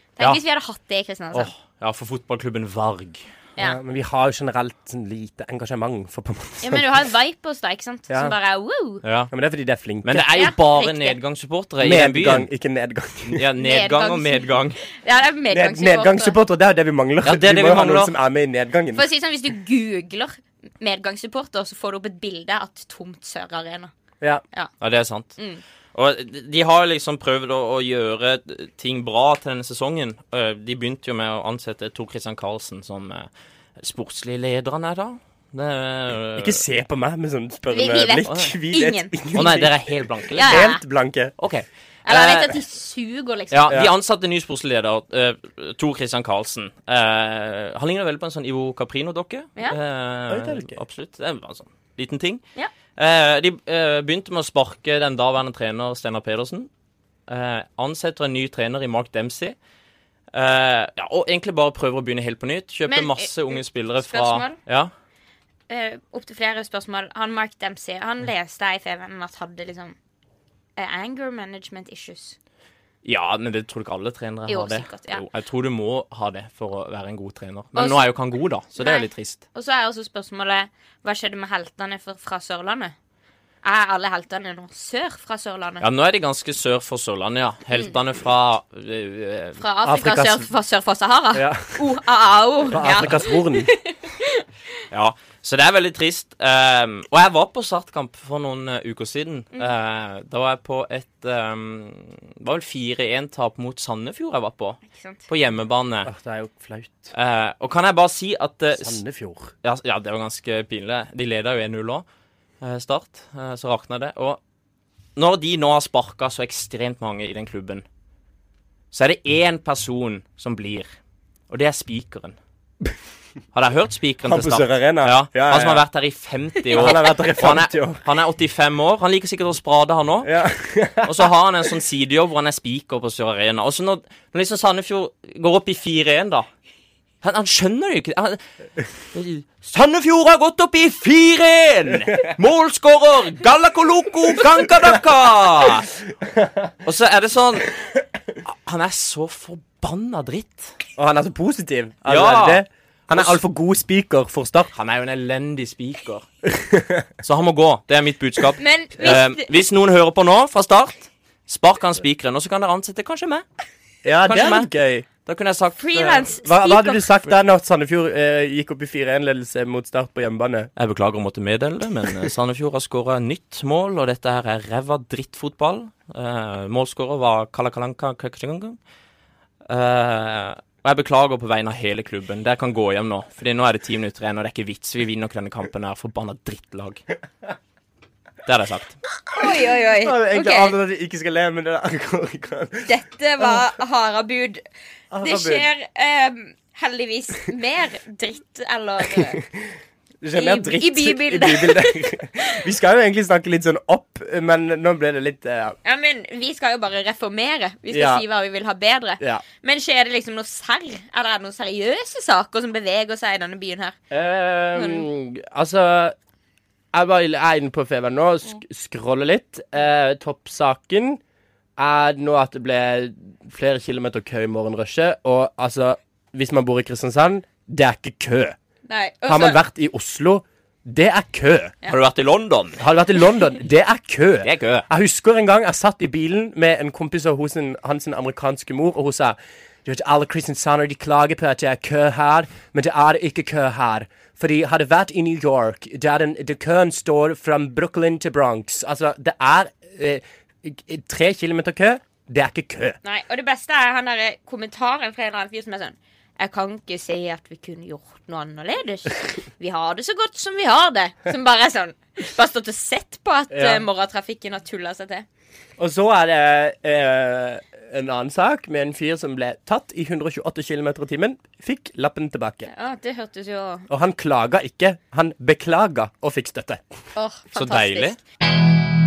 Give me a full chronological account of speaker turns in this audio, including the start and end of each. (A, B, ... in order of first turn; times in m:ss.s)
0:00.2-0:01.5 A
0:01.3-0:03.2 B
0:03.6-0:06.9 C
0:06.6-0:09.0 A
0:08.1-0:08.3 C
0:09.0-0:09.3 B
0:09.3-0:10.2 C
0:10.0-0:12.5 B
0:10.2-0:11.2 A
0:11.8-0:13.4 C
0:13.3-0:14.8 B
0:13.6-0:16.4 A
0:15.5-0:19.0 C
0:17.2-0:18.1 B
0:18.9-0:23.9 A
0:24.8-0:25.3 B
0:25.4-0:25.6 A
0:25.9-0:33.3 B
0:33.8-0:36.6 B
0:36.4-0:41.3 C
0:37.7-0:39.1 A
0:38.3-0:38.5 B
0:39.3-0:40.7 B
0:40.3-0:40.8 A
0:41.4-0:42.5 B
0:42.0-0:43.7 A
0:43.5-0:52.4 B
0:50.3-0:50.8 C
0:52.9-0:56.7 B
0:57.3-0:59.6 B
1:00.3-1:04.9 B
1:02.9-1:04.6 A
1:05.7-1:10.0 A
1:10.8-1:12.4 A
1:13.0-1:19.4 B
1:14.5-1:15.2 A
1:17.7-1:18.1 A
1:18.8-1:22.9 A
1:23.6-1:25.8 A
1:25.8-1:29.6 B
1:29.6-1:34.4 A
1:29.8-1:30.5 C
1:31.3-1:31.8 C
1:32.7-1:33.7 C
1:34.9-1:46.1 B
1:44.9-1:45.2 A
1:46.0-1:47.1 C
1:47.1-1:49.0 B
1:48.8-1:49.5 C
1:49.6-1:52.0 B
1:52.6-1:54.4 B
1:55.2-1:57.8 B
1:58.9-2:00.9 B
2:01.5-2:02.4 B
2:03.5-2:10.3 B
2:04.2-2:05.8 C
2:06.7-2:08.0 C
2:10.2-2:11.3 C
2:11.0-2:16.5 B
2:17.2-2:18.4 B
2:19.1-2:25.9 B
2:26.8-2:27.8 B
2:28.4-2:30.7 B
2:31.0-2:34.7 C
2:32.0-2:33.4 B
2:34.7-2:36.2 B
2:36.6-2:37.0 C
2:37.2-2:43.4 B
2:38.6-2:39.5 A
2:44.0-2:45.0 C
2:44.3-2:44.7 B
2:45.2-2:46.3 B
2:45.8-2:47.1 A
2:46.4-2:50.7 C
2:50.8-2:58.8 B
2:59.7-3:07.0 B
3:08.4-3:09.0 B
3:09.3-3:12.9 C
3:09.4-3:10.8 A
3:12.8-3:14.6 A
3:15.1-3:15.7 C
3:15.2-3:19.4 A
3:19.1-3:19.5 C
3:20.2-3:25.8 C
3:20.4-3:22.5 A
3:25.8-3:34.0 A
3:27.9-3:28.2 C
3:34.1-3:36.1 C
3:34.7-3:35.0 A
3:36.9-3:41.2 C
3:41.8-3:48.6 C
3:48.9-3:49.6 A
3:49.3-3:51.7 C
3:51.9-3:52.8 B
3:52.8-4:13.0 C
3:54.4-3:54.8 B
4:13.0-4:25.2 A
4:23.5-4:23.8 C
4:25.8-4:32.7 C
4:32.7-4:33.9 A
4:33.9-4:36.9 C
4:37.1-4:38.2 A
4:37.5-4:38.2 B